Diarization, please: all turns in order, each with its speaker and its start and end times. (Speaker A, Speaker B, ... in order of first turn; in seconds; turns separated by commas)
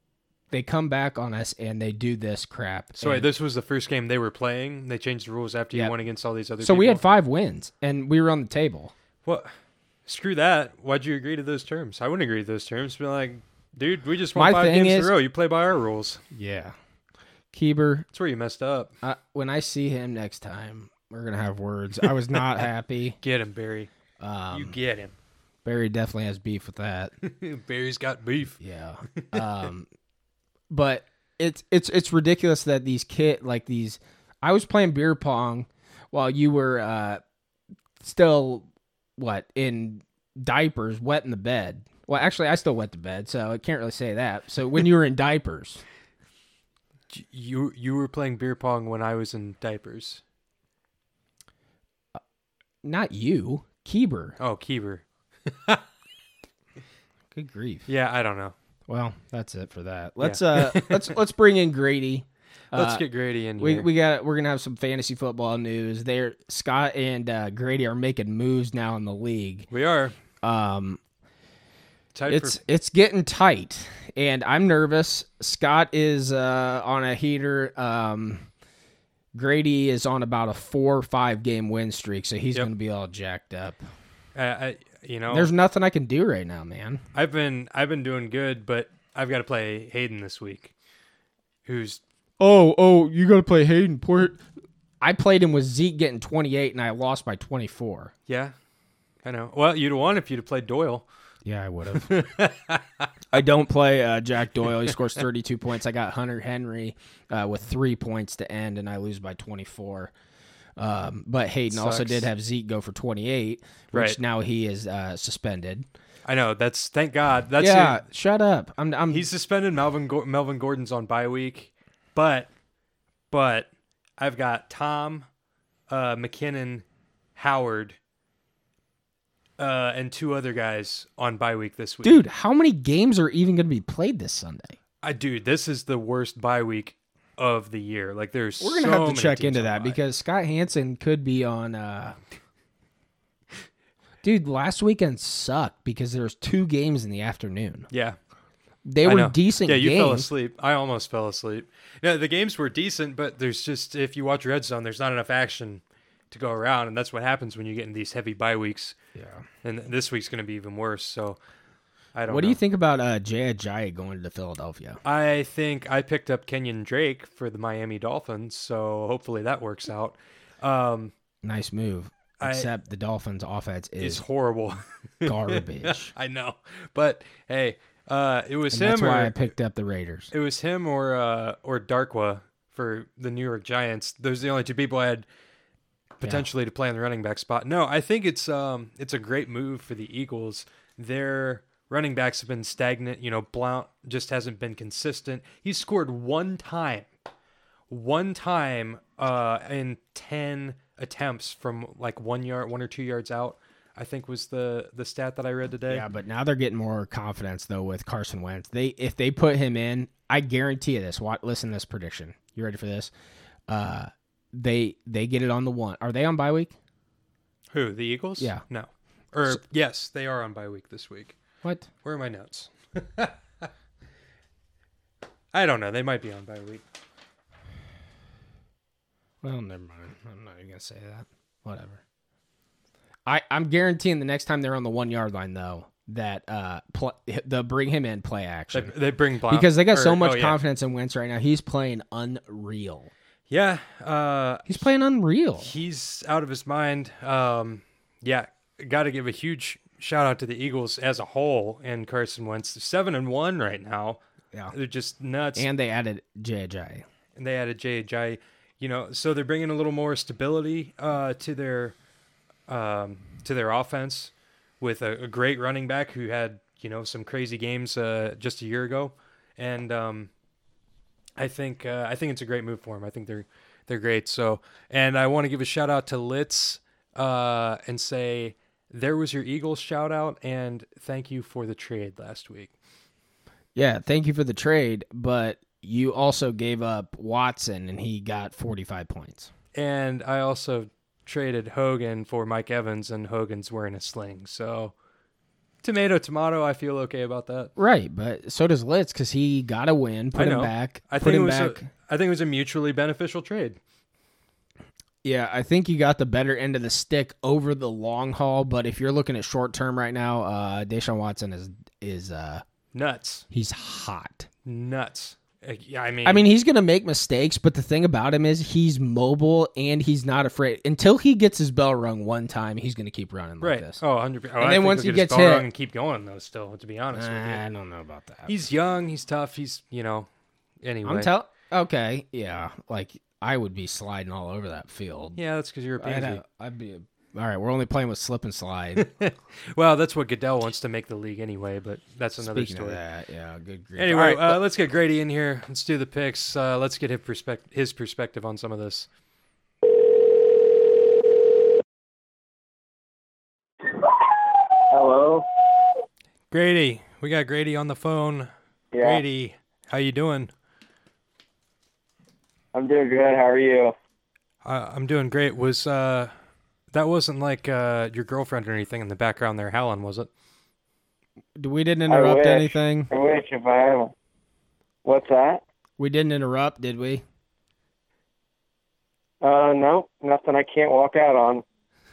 Speaker A: 0.5-3.3, Speaker B: 2.9-7.0, Speaker A: 6.6-8.9, Speaker B: 10.1-16.2, Speaker A: 14.3-15.1, Speaker A: 16.3-16.7, Speaker A: 17.5-18.1, Speaker B: 18.1-18.9, Speaker A: 19.0-23.2, Speaker B: 22.0-22.4, Speaker B: 23.2-23.9, Speaker A: 24.2-24.7, Speaker B: 24.5-25.1, Speaker A: 25.6-27.1, Speaker B: 27.2-28.6, Speaker A: 28.6-29.9, Speaker B: 29.1-29.4, Speaker A: 30.7-37.2, Speaker A: 38.0-45.8, Speaker B: 47.1-50.2, Speaker A: 52.8-54.4, Speaker B: 54.4-55.8, Speaker A: 57.3-57.9, Speaker B: 57.9-58.5, Speaker A: 58.9-63.0, Speaker B: 60.2-61.1, Speaker B: 62.7-63.9, Speaker A: 63.6-69.7, Speaker B: 69.7-70.1, Speaker A: 70.4-71.0, Speaker B: 72.1-72.6, Speaker A: 72.3-78.5, Speaker A: 79.3-83.8, Speaker B: 84.3-85.5, Speaker A: 85.3-87.0, Speaker B: 87.1-90.7, Speaker B: 91.6-92.0, Speaker A: 92.4-94.4, Speaker A: 95.0-98.1, Speaker B: 98.3-98.5, Speaker B: 99.2-101.0, Speaker A: 101.4-102.2, Speaker B: 101.9-103.1, Speaker A: 103.3-110.1, Speaker A: 110.8-115.9, Speaker B: 111.7-112.3, Speaker B: 113.9-114.2, Speaker B: 116.2-118.0, Speaker A: 117.6-119.3, Speaker B: 119.1-122.5, Speaker B: 123.3-125.3, Speaker B: 125.9-126.8, Speaker B: 127.3-128.0, Speaker B: 129.6-132.2, Speaker A: 132.0-134.8, Speaker B: 135.0-140.0, Speaker A: 138.6-142.2, Speaker A: 144.2-147.9, Speaker B: 147.9-148.2, Speaker A: 148.8-150.3, Speaker B: 149.0-158.9, Speaker A: 159.1-159.4, Speaker B: 159.6-161.4, Speaker B: 162.1-162.6, Speaker A: 162.3-165.0, Speaker B: 165.0-171.1, Speaker A: 171.4-174.2, Speaker B: 172.4-172.7, Speaker B: 174.0-179.3, Speaker A: 175.2-176.1, Speaker A: 178.7-180.3, Speaker B: 180.3-185.2, Speaker B: 186.2-197.1, Speaker B: 197.9-206.0, Speaker A: 205.9-213.1, Speaker A: 213.7-216.7, Speaker B: 217.7-221.4, Speaker B: 222.0-223.7, Speaker B: 225.5-226.8, Speaker A: 229.4-232.0, Speaker A: 233.2-238.9, Speaker B: 238.7-240.6, Speaker A: 239.5-243.1, Speaker B: 243.5-244.9, Speaker A: 244.7-245.7, Speaker B: 245.6-255.7, Speaker A: 255.6-257.0, Speaker B: 257.4-261.9, Speaker B: 262.7-270.3, Speaker B: 271.4-282.7, Speaker A: 283.7-289.5, Speaker B: 289.7-294.9, Speaker B: 295.8-297.7, Speaker A: 297.8-301.9, Speaker B: 300.4-303.8, Speaker A: 305.2-312.6, Speaker B: 312.9-313.4, Speaker A: 313.5-314.5, Speaker B: 314.6-316.4, Speaker A: 316.2-324.0, Speaker B: 323.6-327.6, Speaker A: 324.6-325.7, Speaker A: 327.1-328.5, Speaker B: 328.5-330.3, Speaker B: 330.8-331.3, Speaker A: 331.0-335.4, Speaker B: 335.3-336.4, Speaker A: 336.0-339.1, Speaker B: 338.9-343.0, Speaker A: 342.4-344.6, Speaker B: 344.0-349.1, Speaker C: 354.8-355.5, Speaker B: 356.5-358.5, Speaker C: 358.9-359.2, Speaker B: 359.0-360.5, Speaker C: 362.7-363.9, Speaker B: 364.6-366.3, Speaker B: 366.9-370.3, Speaker A: 371.6-373.1, Speaker C: 372.1-374.1, Speaker C: 375.0-375.6, Speaker A: 376.0-377.2, Speaker C: 379.4-381.6